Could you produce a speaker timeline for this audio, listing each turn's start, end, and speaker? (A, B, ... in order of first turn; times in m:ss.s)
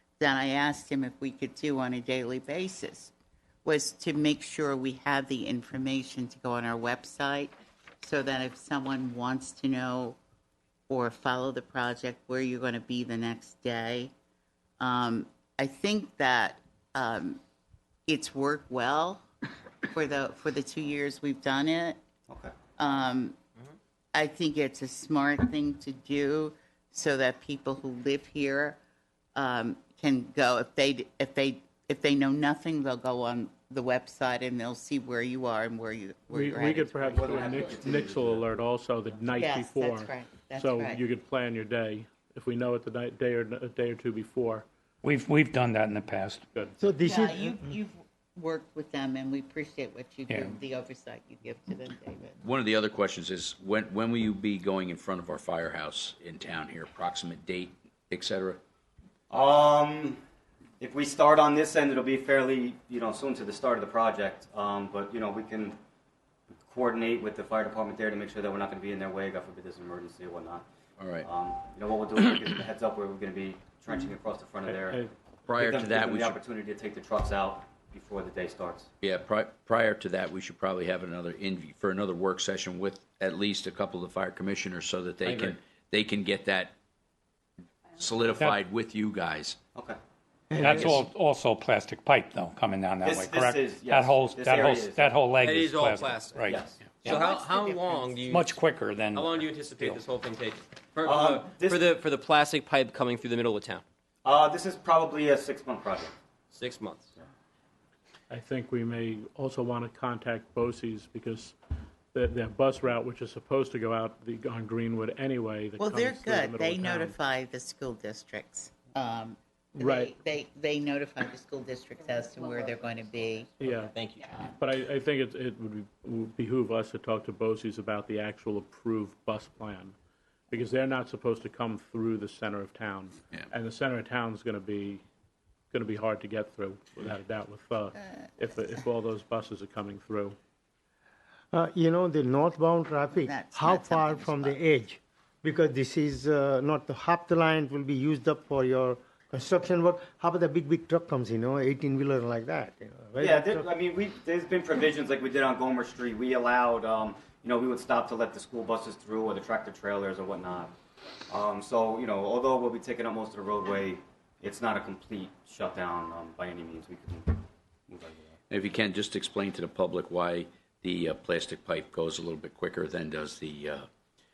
0:00.2-0:03.1 A
0:03.6-0:10.2 A
0:10.9-0:14.1 A
0:14.8-0:17.4 A
0:18.1-0:19.3 A
0:19.8-0:22.0 A
0:22.3-0:22.5 B
0:22.8-0:23.4 A
0:24.1-0:28.8 A
0:29.3-0:37.3 A
0:36.3-0:44.6 C
0:37.0-0:38.5 B
0:39.3-0:41.0 A
0:45.0-0:46.4 D
0:46.8-0:47.7 E
0:47.0-0:52.4 A
0:50.3-0:50.6 D
0:52.4-0:58.6 F
0:59.3-1:00.2 B
1:00.8-1:05.8 B
1:06.5-1:10.6 B
1:11.0-1:11.3 F
1:11.2-1:15.0 B
1:14.7-1:15.1 C
1:15.5-1:16.4 F
1:15.6-1:18.9 B
1:19.0-1:26.7 F
1:25.2-1:25.5 G
1:28.0-1:29.6 F
1:30.5-1:30.8 E
1:30.6-1:37.2 D
1:30.6-1:31.0 F
1:33.0-1:35.1 B
1:35.4-1:38.6 G
1:36.5-1:36.7 B
1:37.0-1:38.1 A
1:38.3-1:40.0 D
1:39.1-1:43.8 G
1:41.0-1:41.8 B
1:44.2-1:46.1 B
1:46.5-1:47.1 G
1:48.3-1:51.6 C
1:52.1-1:57.1 C
1:55.8-2:03.5 A
1:59.7-2:00.1 C
2:03.6-2:03.9 C
2:03.9-2:04.4 G
2:04.5-2:09.9 C
2:10.5-2:15.0 C
2:15.7-2:20.4 C
2:21.5-2:33.7 E
2:23.2-2:24.6 A
2:33.2-2:40.7 B
2:41.3-2:48.4 B
2:48.5-2:53.9 F